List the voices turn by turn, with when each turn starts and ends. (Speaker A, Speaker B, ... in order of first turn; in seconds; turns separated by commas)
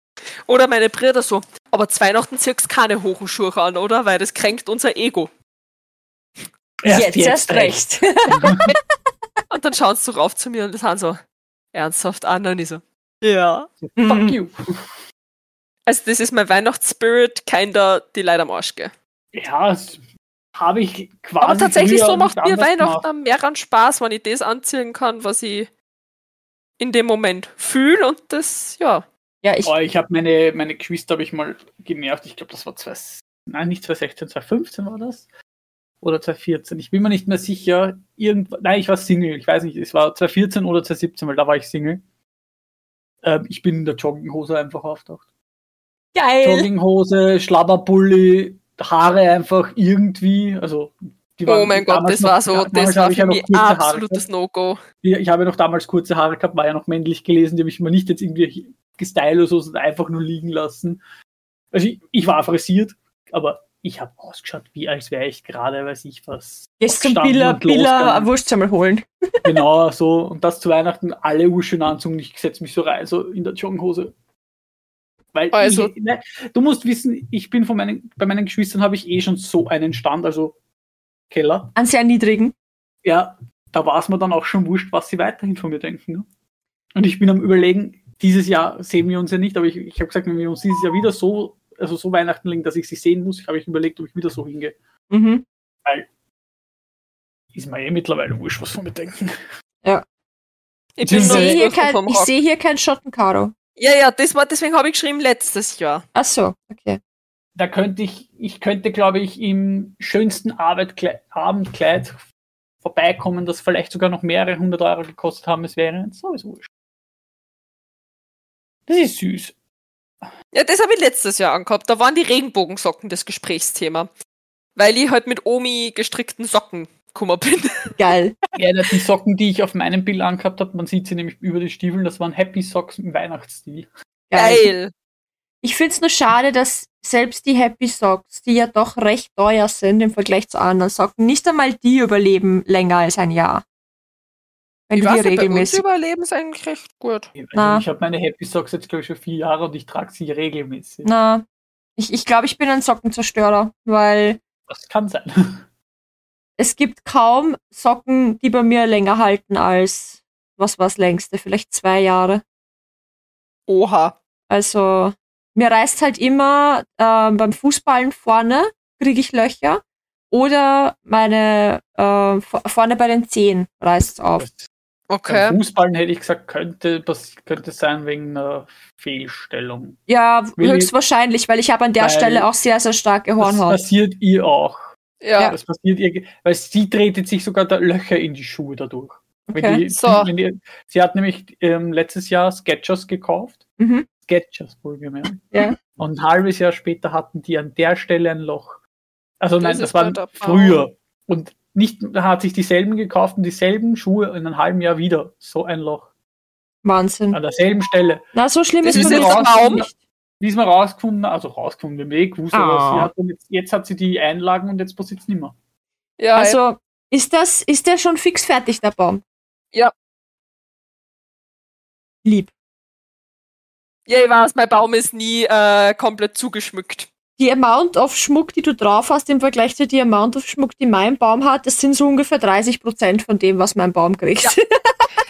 Speaker A: 0.5-5.3, Speaker B: 6.8-8.7, Speaker C: 6.9-8.7, Speaker A: 9.5-11.2, Speaker A: 11.7-13.7, Speaker B: 13.8-15.0, Speaker C: 14.0-14.4, Speaker A: 15.9-18.9, Speaker B: 19.3-20.0, Speaker B: 20.6-23.1, Speaker A: 21.4-25.7, Speaker A: 26.8-29.1, Speaker C: 29.4-29.7, Speaker B: 29.6-35.3, Speaker B: 36.0-42.0, Speaker B: 43.2-45.2, Speaker C: 46.1-46.7, Speaker B: 46.4-54.2, Speaker A: 51.5-54.8, Speaker B: 55.0-61.0, Speaker B: 61.7-68.3, Speaker C: 66.8-69.1, Speaker B: 69.5-74.1, Speaker B: 75.3-80.6, Speaker A: 75.5-75.9, Speaker B: 81.3-81.7, Speaker C: 81.8-82.5, Speaker B: 83.0-86.3, Speaker B: 87.0-94.8, Speaker C: 95.1-95.5, Speaker B: 97.5-99.4, Speaker A: 101.0-102.3, Speaker B: 101.0-101.6, Speaker C: 101.1-103.5, Speaker A: 103.8-106.1, Speaker C: 106.2-107.0, Speaker B: 107.6-112.2, Speaker B: 112.8-116.7, Speaker B: 118.9-119.5, Speaker A: 120.5-124.1, Speaker A: 124.8-128.0, Speaker C: 128.0-128.4, Speaker B: 128.6-133.9, Speaker C: 134.3-134.7, Speaker A: 134.3-134.9, Speaker C: 135.6-143.6, Speaker C: 144.9-145.8, Speaker A: 145.0-147.3, Speaker B: 147.4-151.1, Speaker C: 147.5-147.8, Speaker C: 151.1-151.4, Speaker C: 152.0-154.4, Speaker B: 154.7-155.6, Speaker C: 156.6-162.4, Speaker A: 163.7-164.2, Speaker C: 164.5-174.5, Speaker B: 174.4-174.7, Speaker A: 175.1-175.6, Speaker B: 175.3-180.0, Speaker C: 180.1-183.8, Speaker B: 180.6-180.9, Speaker B: 182.0-182.5, Speaker B: 183.4-184.9, Speaker A: 185.2-185.5, Speaker B: 185.4-193.6, Speaker C: 189.5-189.8, Speaker A: 189.9-190.3, Speaker C: 193.8-194.1, Speaker B: 194.3-198.8, Speaker C: 195.5-195.8, Speaker B: 199.4-206.1, Speaker A: 199.6-200.8, Speaker C: 206.8-207.4, Speaker B: 207.3-208.3, Speaker C: 208.3-209.9, Speaker B: 208.8-215.6, Speaker A: 208.9-209.9, Speaker C: 212.5-213.1, Speaker A: 216.2-216.6, Speaker C: 216.3-219.2, Speaker C: 222.2-222.5, Speaker A: 224.1-227.1, Speaker C: 227.4-235.1